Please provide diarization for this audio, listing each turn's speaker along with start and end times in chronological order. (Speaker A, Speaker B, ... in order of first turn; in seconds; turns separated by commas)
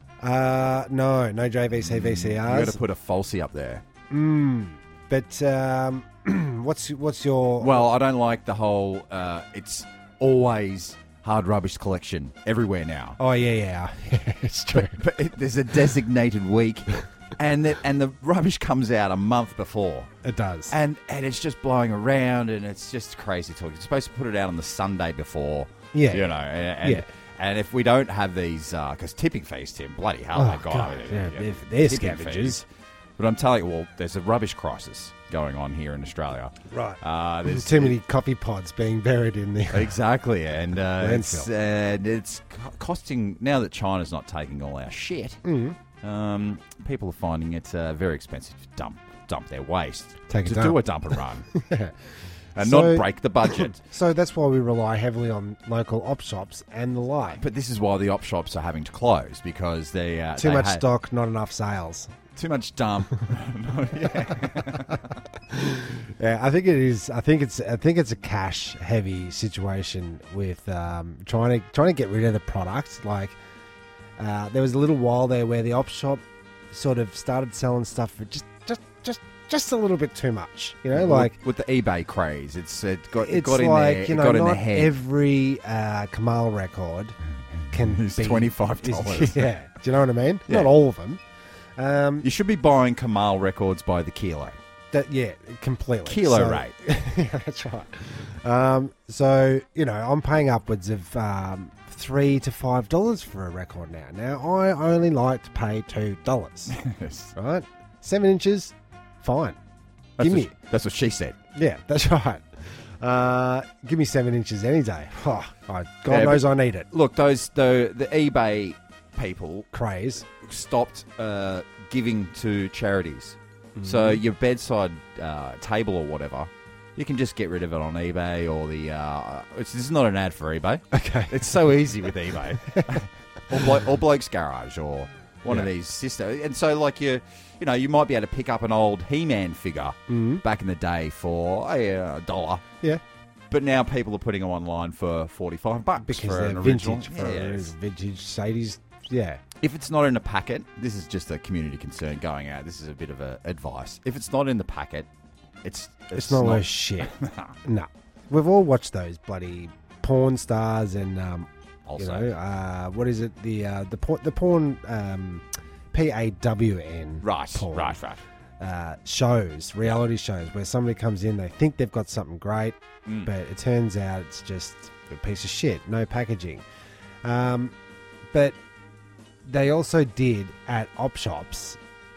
Speaker A: 0.2-2.8, Speaker B: 1.8-3.8, Speaker A: 4.1-7.8, Speaker B: 7.6-13.2, Speaker A: 13.2-15.0, Speaker B: 14.7-20.1, Speaker A: 20.2-20.7, Speaker B: 20.7-32.6, Speaker A: 25.9-27.1, Speaker A: 30.3-32.6, Speaker B: 33.2-38.0, Speaker A: 36.7-40.0, Speaker B: 39.7-45.4, Speaker A: 41.0-41.5, Speaker A: 45.4-45.8, Speaker B: 46.0-51.5, Speaker A: 50.3-51.9, Speaker B: 52.5-53.8, Speaker A: 52.6-57.4, Speaker B: 57.4-60.8, Speaker A: 60.4-62.1, Speaker B: 62.4-65.2, Speaker A: 64.3-64.9, Speaker A: 65.5-73.4, Speaker A: 74.2-81.3, Speaker B: 80.9-84.9, Speaker A: 83.2-87.2, Speaker A: 87.7-91.2, Speaker B: 87.7-89.5, Speaker B: 90.5-90.7, Speaker A: 91.8-92.3, Speaker B: 92.2-94.6, Speaker A: 94.9-106.8, Speaker B: 96.0-96.7, Speaker B: 106.7-107.3, Speaker A: 107.3-109.6, Speaker B: 110.2-111.4, Speaker A: 110.2-110.5, Speaker A: 111.5-116.9, Speaker B: 116.1-119.7, Speaker A: 119.7-120.2, Speaker B: 120.4-142.6, Speaker A: 123.8-124.2, Speaker A: 130.9-131.4, Speaker A: 140.1-140.4, Speaker B: 143.5-147.7, Speaker A: 146.0-149.4, Speaker B: 149.6-155.1, Speaker B: 155.6-157.5, Speaker A: 156.1-168.0, Speaker B: 161.9-162.3, Speaker B: 167.2-168.2, Speaker A: 168.6-176.6, Speaker B: 173.1-173.3, Speaker A: 177.2-177.7, Speaker A: 178.3-178.6, Speaker A: 179.4-181.8